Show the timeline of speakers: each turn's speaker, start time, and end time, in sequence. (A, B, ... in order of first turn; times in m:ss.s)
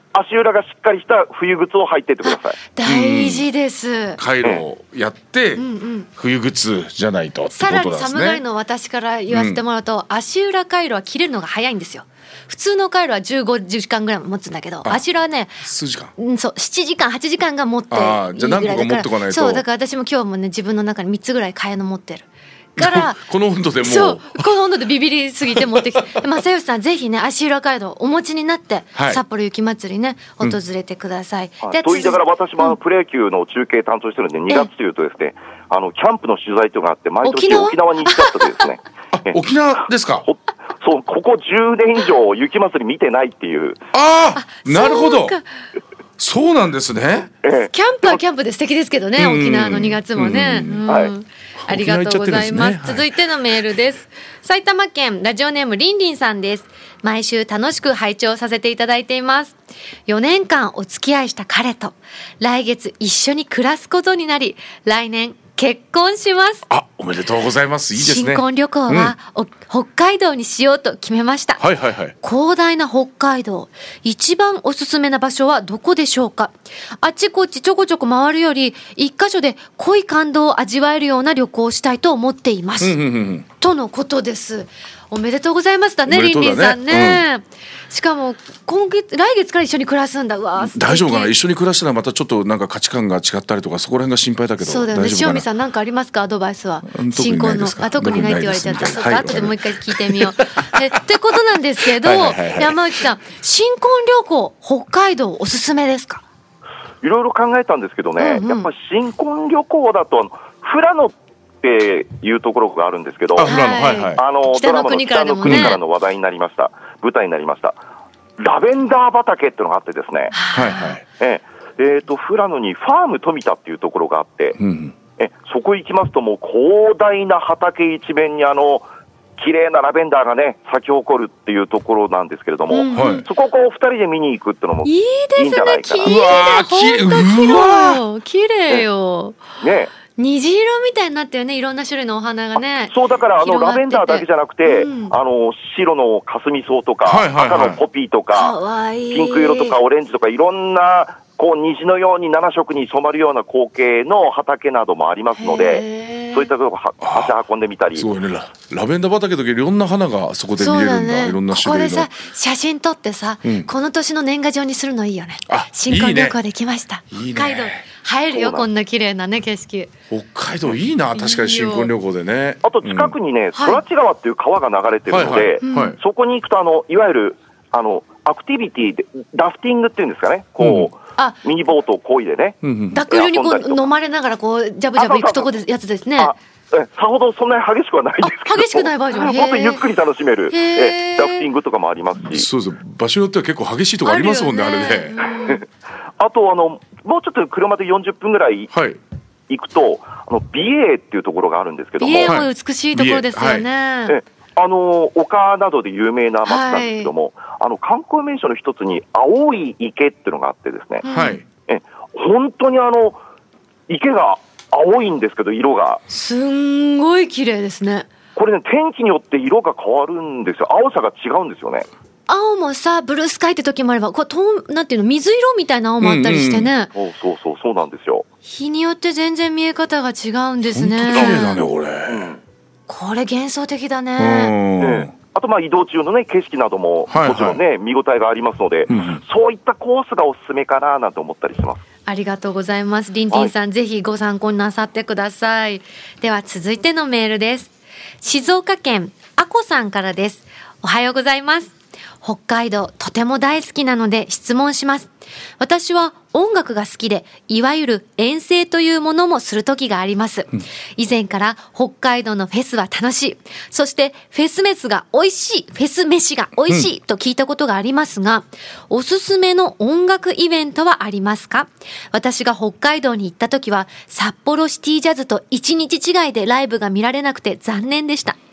0:00.1-0:02.6 A
0:02.2-0:04.2 B
0:02.8-0:03.5 C
0:04.2-0:05.6 C
0:05.6-0:06.1 B
0:06.2-0:08.4 C
0:07.5-0:15.6 B
0:09.3-0:09.6 C
0:15.6-0:16.1 C
0:16.2-0:23.2 B
0:17.9-0:19.6 C
0:22.8-0:24.5 C
0:23.8-0:32.8 B
0:25.5-0:26.0 C
0:29.0-0:29.2 C
0:31.6-0:39.4 A
0:37.2-0:38.7 B
0:39.1-0:40.3 C
0:40.2-0:43.8 A
0:43.9-0:45.4 C
0:44.4-0:45.5 B
0:46.2-0:47.3 C
0:47.4-0:48.2 A
0:47.7-1:06.7 B
0:49.2-0:50.8 C
0:50.9-0:51.1 A
0:51.6-0:53.2 C
1:06.7-1:09.1 C
1:07.9-1:11.6 B
1:11.6-1:12.2 C
1:12.2-1:23.0 B
1:22.8-1:23.5 C
1:23.6-1:31.3 B
1:26.1-1:27.2 C
1:30.6-1:35.5 C
1:34.6-1:46.2 B
1:36.8-1:41.0 C
1:41.8-1:42.8 C
1:47.0-1:53.6 A
1:48.2-1:48.7 B
1:53.4-1:54.2 C
1:53.4-1:55.8 B
1:54.2-1:57.8 A
1:55.4-1:55.8 C
1:58.4-2:00.4 A
2:00.3-2:01.0 B
2:00.5-2:01.0 C
2:01.2-2:04.6 A
2:04.6-2:05.0 C
2:05.2-2:08.9 A
2:09.4-2:16.3 A
2:12.7-2:13.3 B
2:12.9-2:13.3 C
2:14.8-2:19.4 B
2:16.0-2:18.0 C
2:19.6-2:19.9 A
2:20.1-2:25.2 B
2:22.9-2:28.6 A
2:27.0-2:27.8 C
2:28.3-2:29.8 B
2:29.1-2:38.1 A
2:35.4-2:36.5 B
2:37.0-2:37.3 C
2:38.0-2:42.1 C
2:40.6-2:49.9 B
2:43.4-2:43.7 C
2:45.5-2:46.4 C
2:47.1-2:47.8 C
2:48.3-2:48.7 A
2:50.1-2:53.2 C
2:51.1-2:51.9 B
2:52.6-3:03.9 A
2:53.6-2:53.8 B
2:55.1-2:56.0 C
2:55.6-2:56.0 B
3:00.6-3:00.9 C
3:02.6-3:03.0 C
3:02.9-3:06.4 B
3:05.0-3:05.5 A
3:06.2-3:12.5 A
3:08.2-3:09.8 B
3:10.5-3:11.5 B
3:12.2-3:15.2 C
3:14.0-3:15.6 B
3:15.3-3:15.6 A
3:16.2-3:18.7 A
3:18.7-3:19.0 C
3:19.5-3:22.4 A
3:22.0-3:24.2 B
3:22.2-3:23.7 C
3:24.1-3:31.0 A
3:26.5-3:27.1 B
3:31.0-3:31.4 B
3:31.1-3:31.4 C
3:31.7-3:33.2 A
3:33.9-3:36.0 A
3:36.1-3:38.1 B
3:38.4-3:41.9 A
3:42.3-3:46.9 B
3:46.0-3:46.7 C
3:46.9-3:48.3 A
3:48.4-3:51.6 B
3:50.7-3:52.3 C
3:51.1-3:52.4 A
3:52.9-3:54.5 B
3:54.2-3:55.1 C
3:54.8-4:01.8 A
3:57.1-3:57.6 C
3:58.9-3:59.2 C
4:02.1-4:38.4 B